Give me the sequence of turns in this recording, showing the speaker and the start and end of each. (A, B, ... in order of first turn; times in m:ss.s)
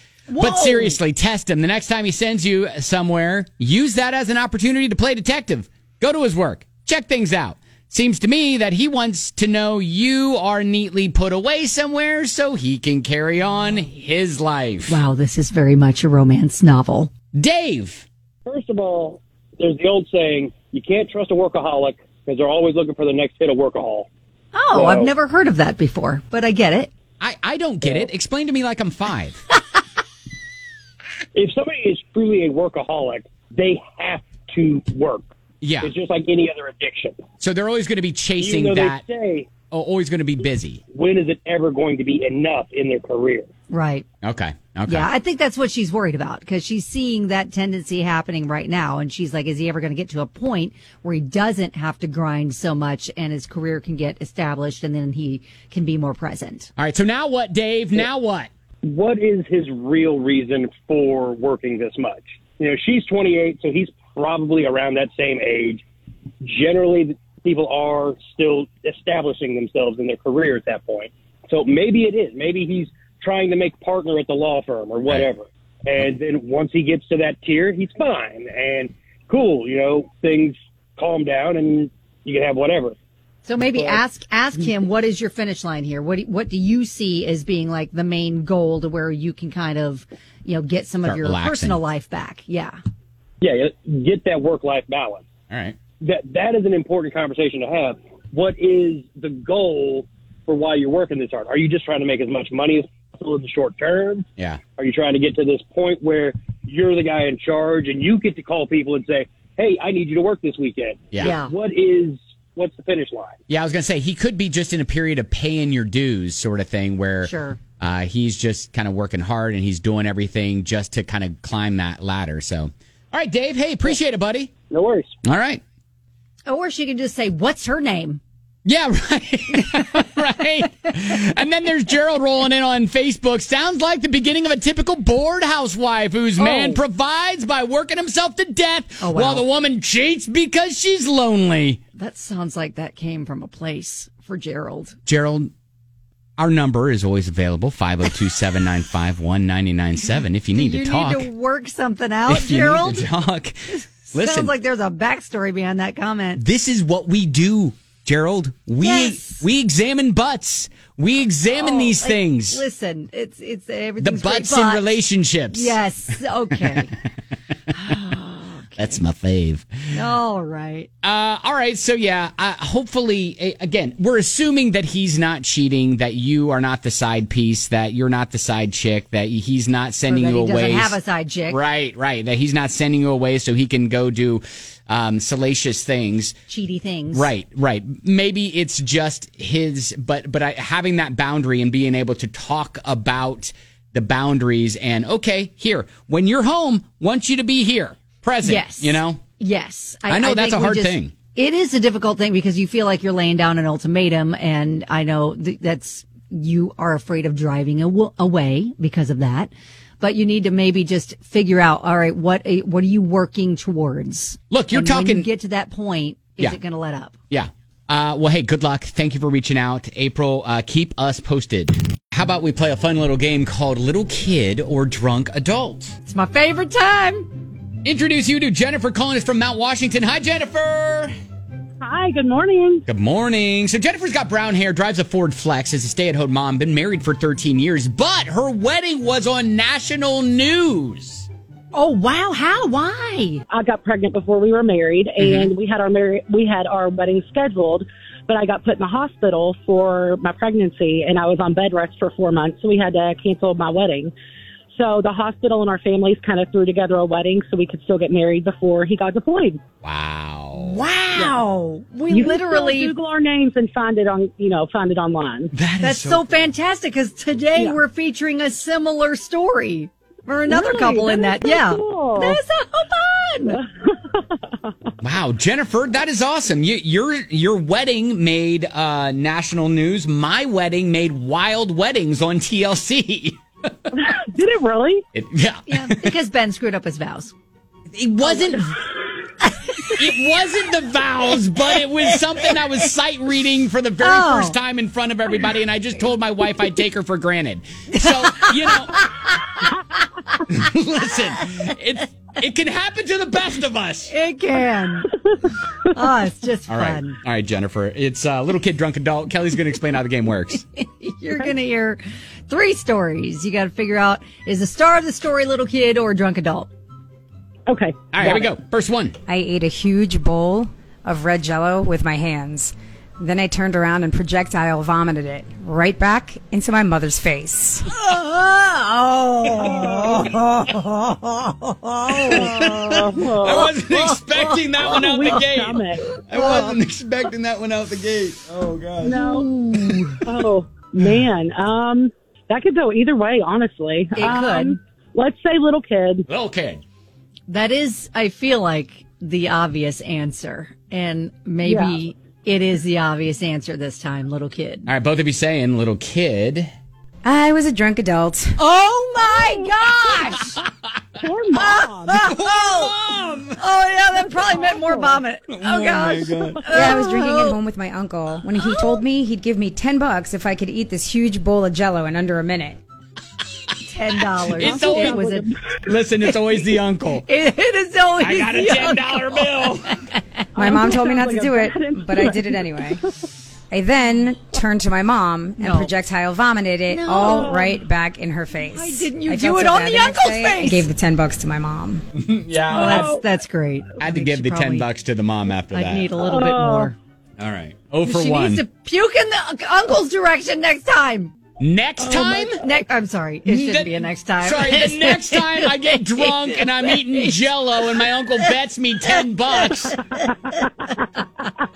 0:00.3-0:01.0 A
0:00.4-0:15.0 B
0:14.9-0:17.1 A
0:17.3-0:18.1 B
0:18.5-0:24.1 C
0:24.5-0:26.9 A
0:24.7-0:25.1 C
0:27.2-0:29.5 B
0:31.3-0:35.3 C
0:35.6-0:35.9 B
0:35.8-0:37.2 C
0:37.4-0:39.0 B
0:38.4-0:39.5 C
0:39.7-0:40.8 B
0:40.9-0:43.5 C
0:43.7-0:44.1 A
0:44.2-0:45.1 B
0:44.9-0:56.7 A
0:56.8-0:58.5 B
0:58.8-1:05.8 C
1:06.4-1:23.0 C
1:23.4-1:32.8 A
1:23.6-1:24.0 C
1:31.0-1:31.8 B
1:33.4-1:35.3 C
1:35.5-1:35.8 B
1:36.0-1:53.4 C
1:51.2-1:51.5 A
1:53.5-2:04.5 B
1:57.2-1:57.6 A
2:04.7-2:05.1 C
2:05.2-2:05.6 B
2:06.5-2:08.2 A
2:08.6-2:21.8 B
2:16.4-2:16.8 A
2:19.0-2:19.5 A
2:22.0-2:25.0 A
2:25.1-2:25.5 B
2:26.4-2:31.3 B
2:30.6-2:33.1 A
2:32.3-2:34.5 B
2:33.7-2:36.4 A
2:36.4-2:42.6 B
2:38.8-2:39.4 A
2:41.5-2:45.0 A
2:44.0-2:45.8 B
2:45.5-2:46.9 A
2:47.7-2:49.0 A
2:48.8-2:49.8 B
2:49.9-2:50.9 A
2:51.0-3:01.0 B
3:00.1-3:01.6 A
3:01.5-3:06.4 B
3:06.5-3:07.3 A
3:07.1-3:19.2 B
3:18.4-3:37.1 A
3:20.1-3:21.1 B
3:34.5-3:35.3 B
3:37.3-3:45.9 B
3:46.1-3:47.3 A
3:47.8-3:51.1 B
3:51.8-3:52.8 D
3:52.9-4:01.3 B
4:01.7-4:03.4 A
4:03.5-4:14.1 D
4:05.2-4:05.5 B
4:14.7-4:19.6 D
4:19.8-4:20.8 B
4:20.6-4:22.9 A
4:22.1-4:25.5 D
4:25.5-4:26.4 B
4:25.8-4:33.6 A
4:30.5-4:32.4 D
4:33.5-4:34.2 D
4:35.0-4:43.4 B
4:43.9-4:45.0 D
4:45.1-4:46.1 B
4:45.7-4:47.3 A
4:47.9-4:48.8 B
4:49.9-4:59.1 B
4:54.0-4:54.6 A
4:57.9-4:59.4 A
5:00.5-5:04.1 B
5:04.1-5:05.1 A
5:05.9-5:07.2 A
5:06.7-5:10.6 B
5:10.6-5:16.7 A
5:17.7-5:18.5 D
5:18.1-5:19.2 B
5:19.3-5:27.8 E
5:28.0-5:32.9 A
5:29.7-5:30.4 B
5:32.1-5:39.2 B
5:32.3-5:33.7 D
5:33.7-5:34.9 A
5:34.8-5:36.0 D
5:36.3-5:36.7 A
5:39.0-5:39.5 D
5:39.1-5:40.2 A
5:40.2-5:46.3 D
5:44.2-5:44.8 A
5:46.3-5:46.8 B
5:47.5-5:54.9 A
5:51.6-5:52.0 D
5:54.9-5:56.7 B
5:57.2-5:58.6 E
5:58.6-6:00.6 A
5:59.2-5:59.6 D
6:01.2-6:02.2 D
6:01.5-6:03.0 A
6:02.1-6:03.6 B
6:03.6-6:07.6 A
6:04.4-6:05.2 D
6:05.5-6:07.0 B
6:06.7-6:12.8 E
6:08.6-6:09.0 A
6:13.8-6:15.5 A
6:14.6-6:15.3 B
6:14.6-6:15.5 D
6:15.8-6:17.3 B
6:17.3-6:20.2 A
6:18.2-6:20.0 B
6:20.6-6:23.0 E
6:20.6-6:23.0 D
6:23.7-6:32.0 E
6:25.6-6:25.9 A
6:26.9-6:27.7 A
6:27.2-6:27.8 D
6:28.6-6:30.9 A
6:32.2-6:33.1 B
6:32.7-6:33.2 D
6:32.7-6:34.9 A
6:34.0-6:36.1 B
6:35.7-6:37.0 A
6:36.2-6:36.9 D
6:37.4-6:38.6 B
6:38.0-6:41.3 A
6:41.6-6:42.6 B
6:42.0-6:42.4 D
6:42.1-6:47.4 A
6:43.5-6:50.0 B
6:50.5-6:51.0 D